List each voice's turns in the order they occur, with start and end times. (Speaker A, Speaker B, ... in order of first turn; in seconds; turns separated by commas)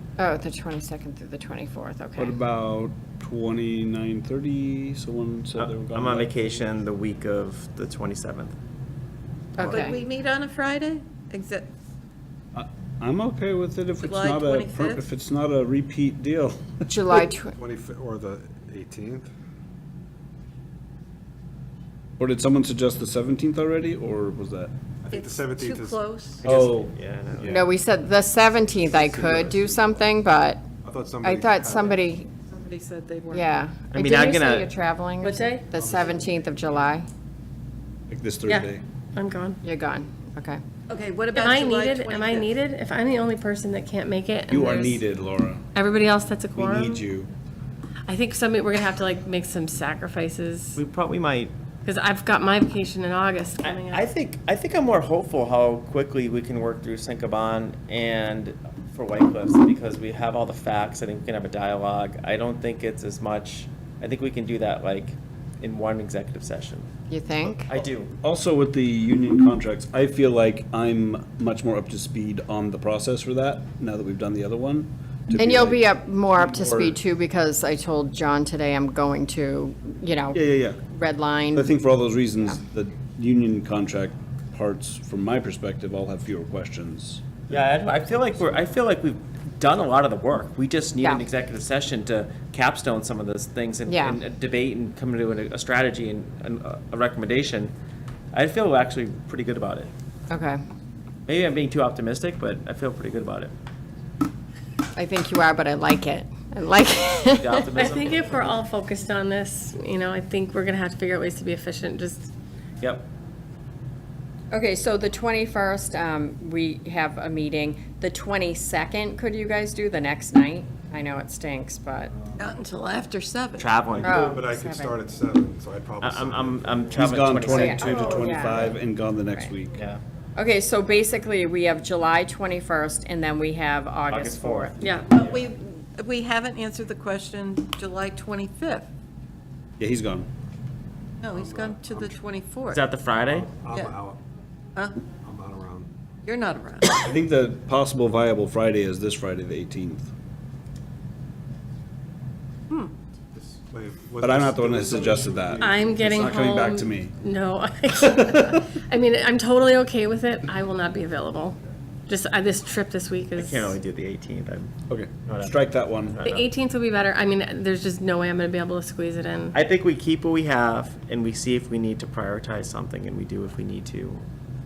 Speaker A: 0.2-2.4, Speaker B: 2.2-6.4, Speaker C: 5.6-8.6, Speaker A: 9.6-10.0, Speaker D: 9.6-11.7, Speaker B: 12.5-16.9, Speaker D: 14.0-15.0, Speaker A: 16.9-17.6, Speaker E: 17.5-19.3, Speaker B: 22.2-24.7, Speaker E: 25.0-26.0, Speaker D: 25.1-26.4, Speaker C: 26.4-27.7, Speaker B: 26.5-26.9, Speaker A: 27.4-30.6, Speaker E: 28.8-30.0, Speaker E: 30.8-32.1, Speaker A: 31.2-32.3, Speaker D: 32.5-33.5, Speaker A: 33.3-37.1, Speaker C: 33.9-34.7, Speaker F: 35.2-35.6, Speaker E: 35.7-36.3, Speaker B: 38.1-38.8, Speaker F: 38.5-39.6, Speaker A: 39.6-40.6, Speaker D: 40.9-42.5, Speaker F: 41.3-45.0, Speaker B: 44.5-45.6, Speaker F: 45.7-47.0, Speaker B: 46.5-47.3, Speaker F: 48.1-50.8, Speaker C: 50.8-51.5, Speaker F: 51.9-54.1, Speaker C: 53.6-66.9, Speaker A: 67.1-67.7, Speaker C: 67.7-68.1, Speaker B: 68.2-77.0, Speaker A: 75.3-81.7, Speaker B: 80.3-80.8, Speaker B: 81.5-87.5, Speaker C: 87.5-97.7, Speaker A: 93.9-94.2, Speaker C: 98.3-99.9, Speaker A: 100.3-100.6, Speaker C: 101.3-103.5, Speaker A: 105.0-107.7, Speaker C: 107.3-108.5, Speaker F: 107.7-112.3, Speaker C: 112.8-113.1, Speaker A: 114.5-122.1, Speaker D: 122.4-123.8, Speaker C: 123.6-124.4, Speaker E: 123.9-127.2, Speaker A: 124.0-125.0, Speaker C: 126.0-127.9, Speaker B: 127.0-129.8, Speaker A: 127.4-128.8, Speaker F: 127.8-128.6, Speaker A: 130.4-134.8, Speaker C: 134.1-135.4, Speaker F: 134.8-135.1, Speaker D: 135.1-138.9, Speaker B: 139.8-140.3, Speaker D: 141.2-142.8, Speaker E: 141.3-142.1, Speaker C: 142.7-143.5, Speaker E: 143.2-144.2, Speaker D: 143.6-144.0, Speaker E: 145.2-145.9, Speaker D: 146.2-147.0, Speaker B: 146.9-150.1, Speaker E: 153.3-155.9, Speaker B: 154.2-157.1, Speaker F: 155.6-163.8, Speaker C: 163.4-164.7, Speaker B: 164.9-166.2, Speaker C: 165.3-166.5, Speaker F: 166.2-169.6, Speaker C: 169.5-174.2